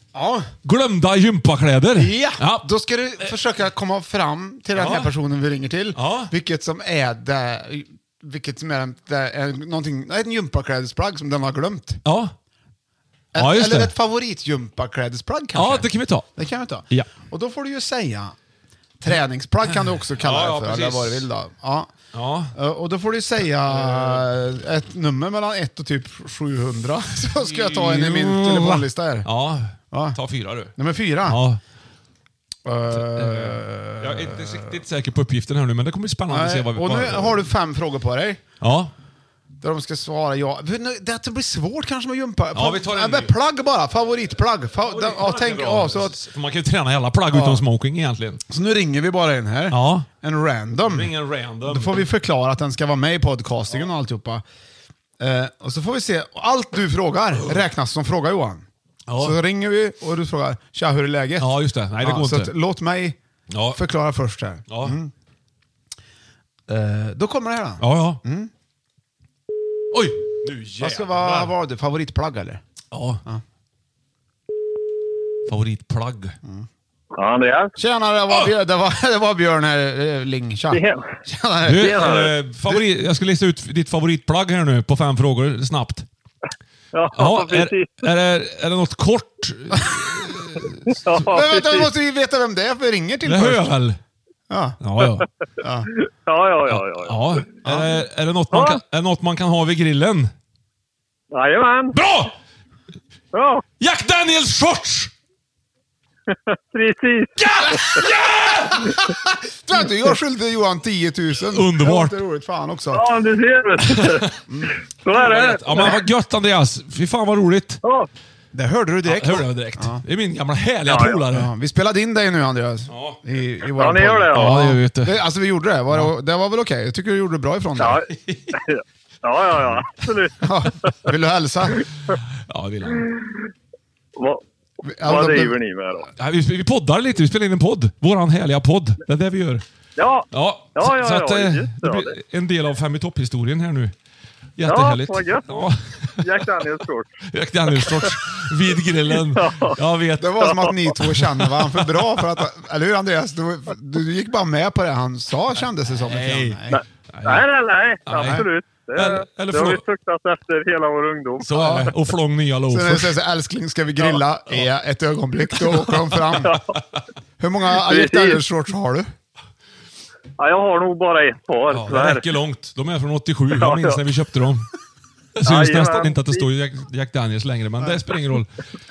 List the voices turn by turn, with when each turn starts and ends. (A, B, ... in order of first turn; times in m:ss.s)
0:00.1-0:00.5 A
0:00.6-0:02.6 B
0:02.0-0:12.0 A
0:04.7-0:05.1 B
0:05.9-0:06.3 B
0:12.0-0:12.3 B
0:13.3-0:13.9 B
0:13.3-0:18.4 A
0:15.5-0:16.3 B
0:19.0-0:21.9 A
0:19.9-0:21.2 B
0:22.1-0:22.5 B
0:22.5-0:29.3 A
0:23.6-0:24.3 B
0:27.3-0:31.6 B
0:29.9-0:30.2 A
0:30.7-0:31.4 A
0:32.6-0:34.8 A
0:32.9-0:37.5 B
0:36.3-0:38.4 A
0:38.6-0:38.9 B
0:39.6-0:46.2 A
0:42.5-0:43.4 B
0:44.8-0:48.4 B
0:47.3-0:47.6 A
0:48.5-0:51.1 A
0:49.7-0:50.1 B
0:50.8-0:52.0 B
0:51.6-0:54.4 A
0:55.2-0:58.6 A
0:59.1-0:59.4 B
0:59.2-1:03.2 A
1:01.4-1:02.5 B
1:03.5-1:03.8 B
1:03.7-1:05.1 A
1:04.7-1:05.0 B
1:06.7-1:08.5 A
1:07.8-1:08.2 B
1:09.9-1:11.5 B
1:10.8-1:12.6 A
1:12.9-1:13.2 B
1:15.4-1:16.4 B
1:17.1-1:17.7 C
1:17.8-1:22.1 A
1:20.7-1:21.0 C
1:21.6-1:26.1 B
1:21.7-1:22.3 C
1:26.9-1:27.9 C
1:27.1-1:31.2 B
1:29.8-1:30.1 A
1:30.9-1:31.9 C
1:31.2-1:33.8 A
1:33.2-1:34.0 B
1:34.5-1:34.8 A
1:34.8-1:35.3 B
1:35.6-1:35.9 A
1:35.9-1:37.4 C
1:36.7-1:40.3 B
1:37.6-1:37.9 A
1:38.5-1:38.8 C
1:41.3-1:41.9 C
1:41.9-1:42.3 B
1:43.3-1:43.6 C
1:43.8-1:45.1 B
1:46.3-1:48.0 C
1:47.4-1:49.0 B
1:47.6-1:53.1 A
1:51.5-1:52.2 B
1:52.9-1:54.2 C
1:53.8-1:54.4 B
1:55.0-1:56.0 C
1:55.1-1:57.8 B
1:57.8-1:58.1 C
1:58.5-2:00.0 A
1:59.0-2:01.5 B
2:00.8-2:01.2 C
2:01.3-2:08.0 A
2:02.9-2:03.2 B
2:03.8-2:04.6 C
2:04.3-2:05.2 B
2:07.8-2:10.4 C
2:08.1-2:08.6 B
2:10.4-2:11.8 A
2:12.5-2:13.1 B
2:14.2-2:14.4 C
2:14.9-2:15.6 A
2:15.0-2:16.1 C
2:16.2-2:19.6 B
2:20.0-2:22.1 C
2:20.3-2:23.9 B
2:24.6-2:26.7 B
2:24.6-2:25.4 C
2:26.2-2:27.1 C
2:27.3-2:32.0 B
2:27.8-2:28.2 C
2:29.1-2:29.8 C
2:30.2-2:36.8 A
2:36.0-2:36.6 B
2:36.7-2:41.9 C
2:37.1-2:37.4 B
2:38.0-2:39.8 B
2:41.4-2:43.2 B
2:41.5-2:41.9 A
2:42.7-2:46.6 A
2:44.0-2:44.7 B
2:45.5-2:46.8 B
2:47.4-2:49.1 A
2:47.8-2:48.4 C
2:50.4-2:52.2 C
2:51.7-2:54.7 B
2:53.5-2:54.0 C
2:55.4-2:58.5 B
2:55.4-2:56.4 C